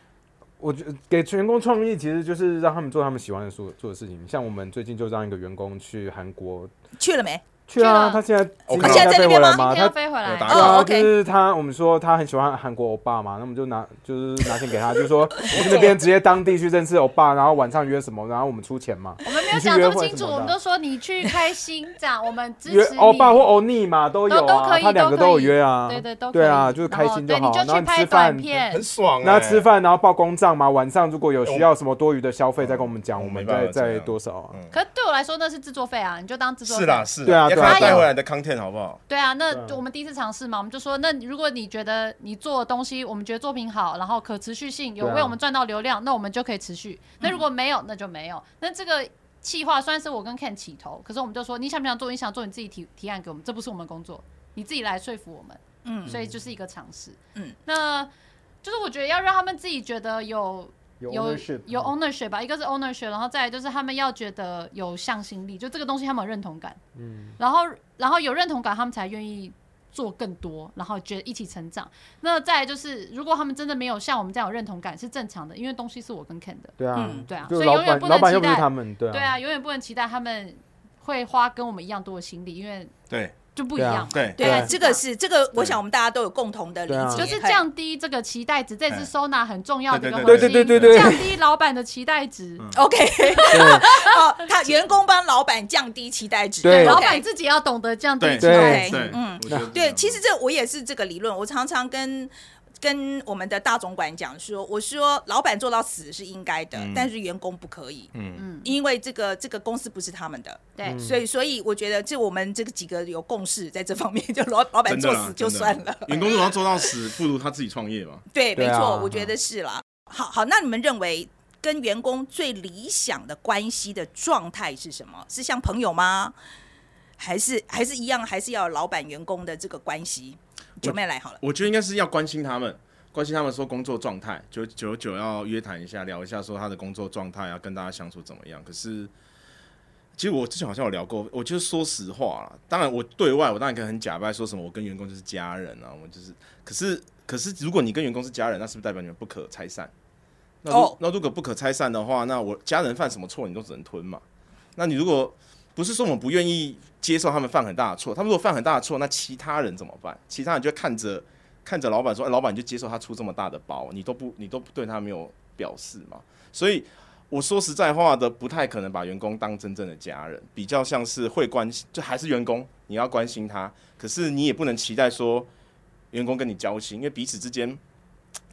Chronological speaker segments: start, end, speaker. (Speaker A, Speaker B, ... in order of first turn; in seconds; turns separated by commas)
Speaker A: 0.6-6.7, Speaker B: 7.0-7.4, Speaker A: 7.7-20.5, Speaker C: 7.8-8.2, Speaker D: 8.7-9.2, Speaker B: 8.8-9.6, Speaker C: 9.1-10.8, Speaker D: 10.2-10.8, Speaker B: 10.5-11.1, Speaker D: 15.5-15.9, Speaker C: 19.2-23.4, Speaker A: 22.6-28.5, Speaker C: 24.3-28.8, Speaker D: 28.7-29.7, Speaker A: 29.2-34.6, Speaker D: 32.6-34.8, Speaker C: 34.7-38.1, Speaker D: 36.6-39.0, Speaker A: 37.2-38.1, Speaker C: 39.1-58.1, Speaker A: 39.5-39.8, Speaker A: 45.0-45.4, Speaker B: 55.8-56.1, Speaker A: 56.1-56.4, Speaker C: 58.6-66.8, Speaker A: 61.0-61.9, Speaker A: 67.0-67.4, Speaker C: 67.4-82.9, Speaker A: 76.8-79.3, Speaker B: 76.9-77.3, Speaker C: 83.5-85.0, Speaker A: 83.8-84.7, Speaker D: 84.1-84.4, Speaker B: 84.4-87.6, Speaker A: 86.9-87.3, Speaker C: 87.1-92.7, Speaker D: 89.9-91.2, Speaker A: 90.2-91.3, Speaker D: 92.6-92.8, Speaker B: 92.7-97.2, Speaker C: 93.2-94.2, Speaker A: 93.5-93.8, Speaker A: 96.6-97.0, Speaker C: 96.6-99.0, Speaker D: 98.2-100.2, Speaker A: 98.4-99.7, Speaker B: 98.5-108.1, Speaker D: 106.7-107.1, Speaker D: 108.1-108.4, Speaker C: 108.4-108.7, Speaker B: 108.6-116.9, Speaker A: 110.8-111.2, Speaker D: 114.8-118.2, Speaker B: 118.3-126.3, Speaker A: 118.5-119.3, Speaker B: 127.2-131.4, Speaker D: 130.8-139.1, Speaker D: 140.2-149.9, Speaker D: 150.6-154.2, Speaker B: 150.7-151.0, Speaker D: 154.8-175.5, Speaker D: 176.1-177.8